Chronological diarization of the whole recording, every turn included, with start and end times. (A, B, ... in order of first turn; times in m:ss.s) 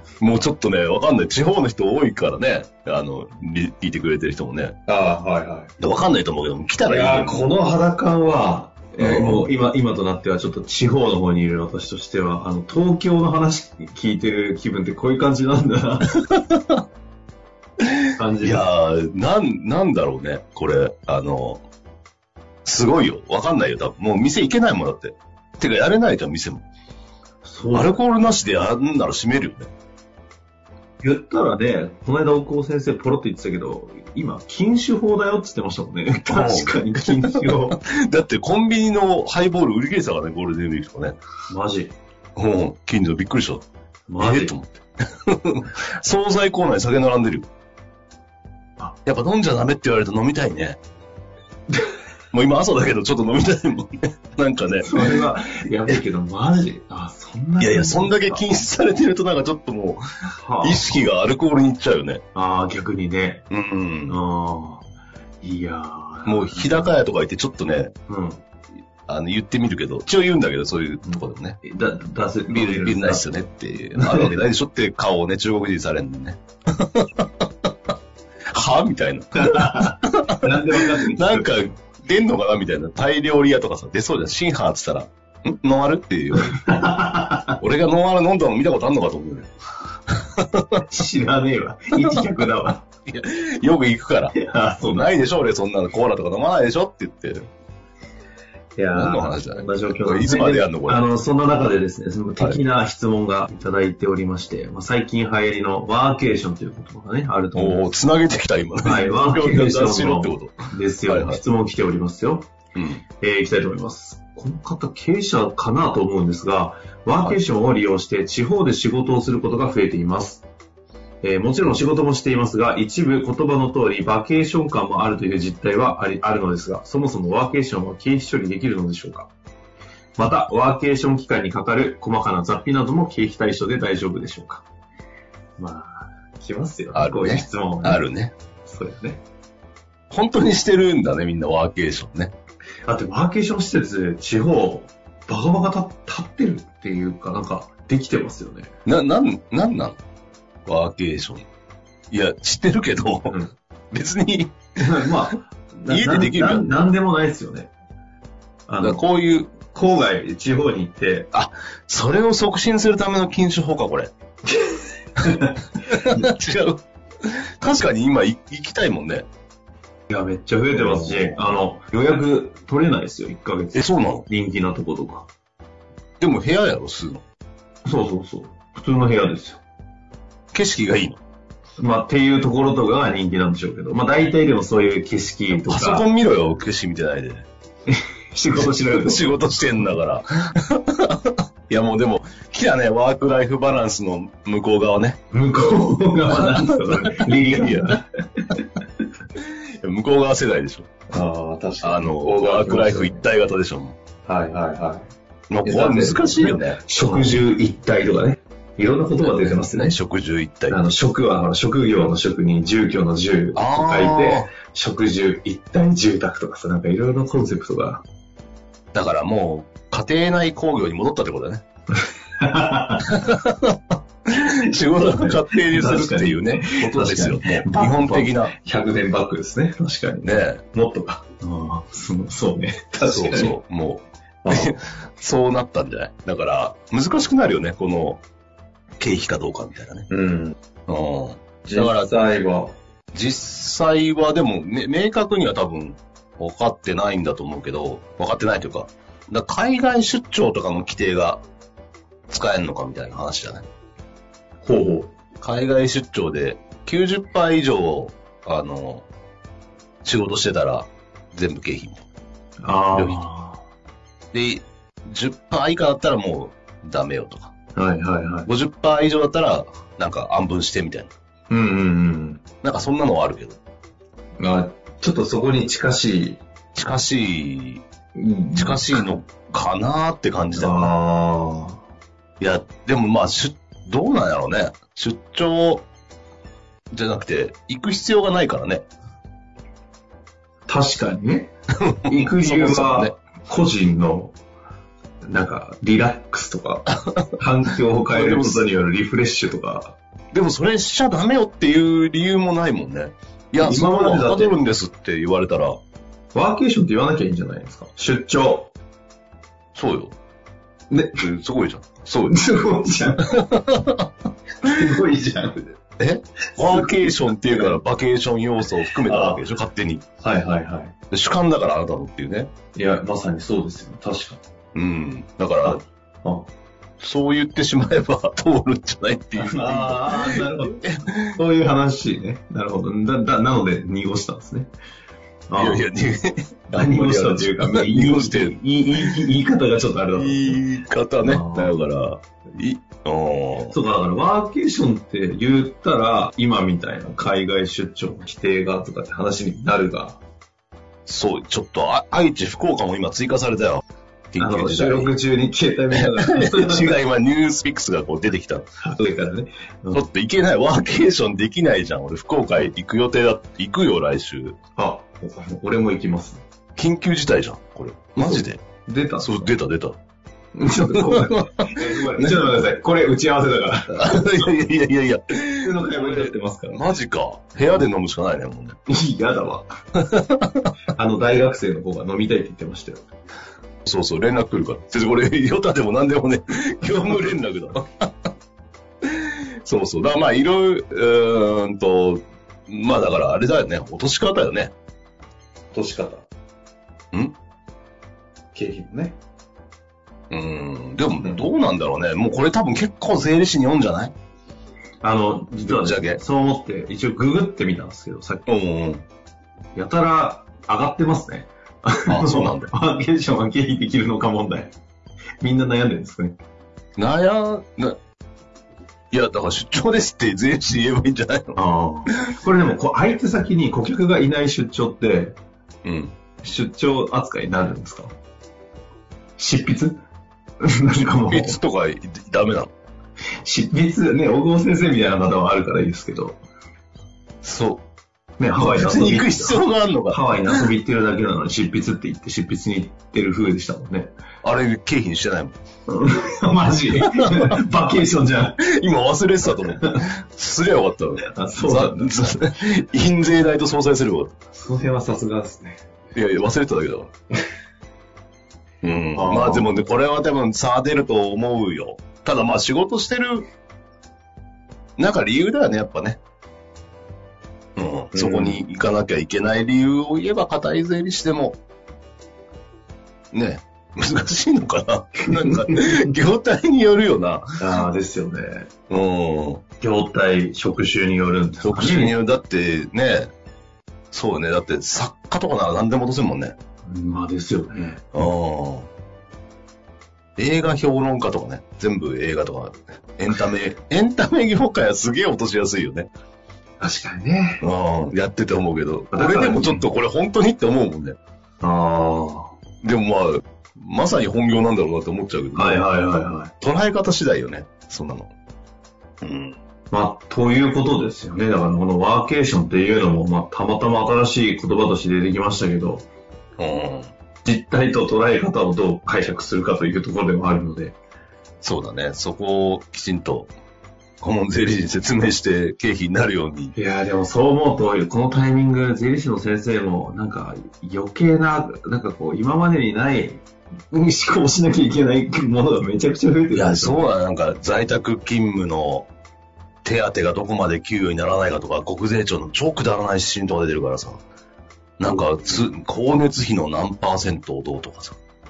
0:00.2-0:04.8 A
0:04.9-0:05.7 B
0:05.8-0:07.5 A
0:06.8-0:16.2 B
0:09.0-0:09.5 A
0:16.3-0:16.8 A
0:17.8-0:21.6 A
0:18.2-0:18.7 B
0:22.6-0:26.6 A
0:27.4-0:28.0 B
0:27.7-0:29.7 A
0:31.0-0:37.8 B
0:36.3-0:41.2 A
0:41.5-0:41.9 B
0:42.4-0:43.6 A
0:44.1-0:44.5 B
0:44.2-0:47.4 A
0:49.0-0:50.8 A
0:52.3-0:55.3 A
0:54.8-0:58.4 B
0:57.6-1:00.0 A
1:00.4-1:00.9 B
1:00.6-1:02.2 A
1:02.3-1:03.5 B
1:03.5-1:04.2 A
1:04.1-1:04.8 B
1:05.4-1:06.9 B
1:06.2-1:07.9 A
1:08.1-1:08.4 B
1:09.1-1:11.6 A
1:11.6-1:13.3 B
1:12.5-1:17.7 A
1:13.9-1:14.4 B
1:18.5-1:26.6 A
1:19.4-1:21.6 B
1:26.4-1:27.6 B
1:27.6-1:29.5 A
1:30.1-1:30.8 A
1:30.9-1:32.8 B
1:31.9-1:32.3 A
1:33.0-1:37.5 A
1:34.3-1:35.2 B
1:38.8-1:47.8 B
1:38.9-1:41.0 A
1:47.5-1:50.6 A
1:48.8-1:52.5 B
1:51.1-1:51.4 A
1:52.7-1:53.0 A
1:53.2-2:00.4 B
2:01.2-2:09.3 B
2:10.2-2:14.6 B
2:15.6-2:18.1 B
2:16.9-2:18.3 A
2:18.6-2:19.2 B
2:20.1-2:22.3 A
2:22.8-2:28.7 B
2:28.8-2:30.0 A
2:30.6-2:31.4 A
2:32.1-2:33.4 A
2:33.3-2:33.5 B
2:33.9-2:35.1 A
2:34.8-2:37.7 B
2:35.9-2:36.8 A
2:38.7-2:39.0 B
2:38.8-2:39.5 A
2:39.6-2:41.3 B
2:41.3-2:44.1 A
2:44.5-2:46.3 B
2:45.3-2:49.2 A
2:50.1-2:55.3 B
2:50.7-2:51.4 A
2:53.7-2:54.2 A
2:56.2-2:57.2 A
2:57.8-2:59.6 B
3:00.5-3:01.2 A
3:01.8-3:06.0 B
3:05.5-3:07.5 A
3:07.9-3:09.5 B
3:08.6-3:15.2 A
3:15.3-3:18.6 B
3:16.2-3:17.9 A
3:19.4-3:20.9 A
3:21.1-3:23.2 B
3:21.8-3:24.0 A
3:24.2-3:25.1 B
3:25.5-3:27.4 A
3:25.6-3:30.0 B
3:29.2-3:30.9 A
3:30.7-3:38.0 B
3:33.5-3:34.5 A
3:38.9-3:41.6 A
3:42.4-3:43.1 B
3:43.0-3:48.5 A
3:44.9-3:53.6 B
3:50.2-3:50.6 A
3:53.0-3:58.2 A
3:54.4-3:54.8 B
3:59.0-4:00.1 A
4:00.1-4:00.6 B
4:00.9-4:02.1 A
4:01.7-4:02.8 B
4:03.1-4:11.4 A
4:12.3-4:13.6 A
4:14.6-4:15.1 B
4:15.4-4:19.0 A
4:20.0-4:22.0 A
4:22.6-4:23.6 B
4:22.9-4:23.2 A
4:24.3-4:27.5 A
4:27.7-4:28.5 B
4:28.5-4:31.1 A
4:31.5-4:32.4 B
4:32.6-4:33.6 A
4:34.4-4:36.4 B
4:36.7-4:37.8 A
4:38.1-4:39.2 B
4:38.6-4:40.9 A
4:40.5-4:41.8 B
4:42.4-4:45.9 A
4:46.9-4:48.8 A
4:50.6-4:51.5 B
4:51.8-4:53.2 A
4:52.1-4:54.4 B
4:55.2-5:00.0 B
4:58.1-4:58.7 A
5:00.3-5:05.8 A
5:03.6-5:04.6 B
5:06.3-5:08.7 B
5:09.7-5:10.1 A
5:10.9-5:11.2 B
5:11.2-5:12.4 A
5:12.3-5:13.4 B
5:13.3-5:14.1 A
5:14.6-5:15.8 B
5:16.0-5:20.0 A
5:16.5-5:17.8 B
5:19.0-5:19.4 B
5:20.2-5:20.9 B
5:21.1-5:22.5 A
5:22.7-5:24.4 B
5:24.7-5:25.8 A
5:25.6-5:26.5 B
5:27.0-5:31.4 A
5:29.4-5:34.7 B
5:35.5-5:35.8 B
5:35.6-5:39.3 A
5:36.7-5:40.6 B
5:40.2-5:43.8 A
5:41.2-5:41.8 B
5:43.7-5:50.2 B
5:51.0-5:55.1 A
5:54.4-5:57.0 B
5:55.9-5:58.6 A
5:58.8-6:00.0 B
5:59.9-6:04.6 A
6:04.8-6:06.4 B
6:06.8-6:08.6 A
6:08.2-6:09.5 B
6:09.2-6:10.0 A
6:10.5-6:14.5 B
6:10.9-6:12.6 A
6:13.9-6:18.8 A
6:15.6-6:16.8 B
6:18.9-6:19.8 B
6:20.0-6:20.7 A
6:20.9-6:23.1 B
6:23.8-6:28.1 A
6:26.9-6:27.3 B
6:29.0-6:34.7 A
6:35.7-6:36.3 B
6:38.5-6:39.2 B
6:40.3-6:44.1 A
6:41.2-6:41.5 B
6:45.0-6:48.4 B
6:45.6-6:46.2 A
6:48.5-6:49.0 A
6:49.7-6:54.7 B
6:52.1-6:52.7 A
6:55.4-6:56.4 B
6:57.0-6:58.0 A
6:59.1-7:01.6 A
7:01.6-7:05.4 B
7:05.8-7:06.1 A
7:06.4-7:08.1 B
7:09.4-7:10.0 B
7:10.6-7:11.6 B
7:11.3-7:12.7 A
7:13.4-7:16.4 B
7:17.4-7:17.8 A
7:18.4-7:24.1 B
7:18.6-7:20.7 A
7:24.4-7:25.6 A
7:25.9-7:28.6 B
7:27.0-7:27.5 A
7:28.6-7:34.3 A
7:31.2-7:32.1 B
7:34.5-7:35.8 B
7:36.1-7:37.1 A
7:38.8-7:43.4 A
7:39.1-7:39.7 B
7:45.0-7:46.2 A
7:47.8-7:51.6 A
7:48.1-7:48.6 B
7:53.3-7:57.4 A
7:55.2-7:56.0 B
7:57.6-7:58.7 B
7:58.9-7:59.6 A
7:59.8-8:02.1 B
8:01.6-8:03.3 A
8:04.1-8:06.5 A
8:06.8-8:08.0 B
8:08.1-8:08.9 A
8:10.4-8:16.1 A
8:16.8-8:17.6 B
8:17.6-8:21.2 A
8:19.1-8:19.8 B
8:21.6-8:22.5 B
8:22.8-8:28.3 A
8:25.5-8:26.5 B
8:29.2-8:29.6 A
8:29.9-8:36.1 B
8:36.6-8:37.1 A
8:37.4-8:41.0 B
8:41.6-8:43.5 A
8:44.2-8:46.7 A
8:46.7-8:57.1 B
8:56.5-8:59.1 A
8:59.8-9:04.2 A
9:05.0-9:08.2 A
9:05.0-9:05.6 B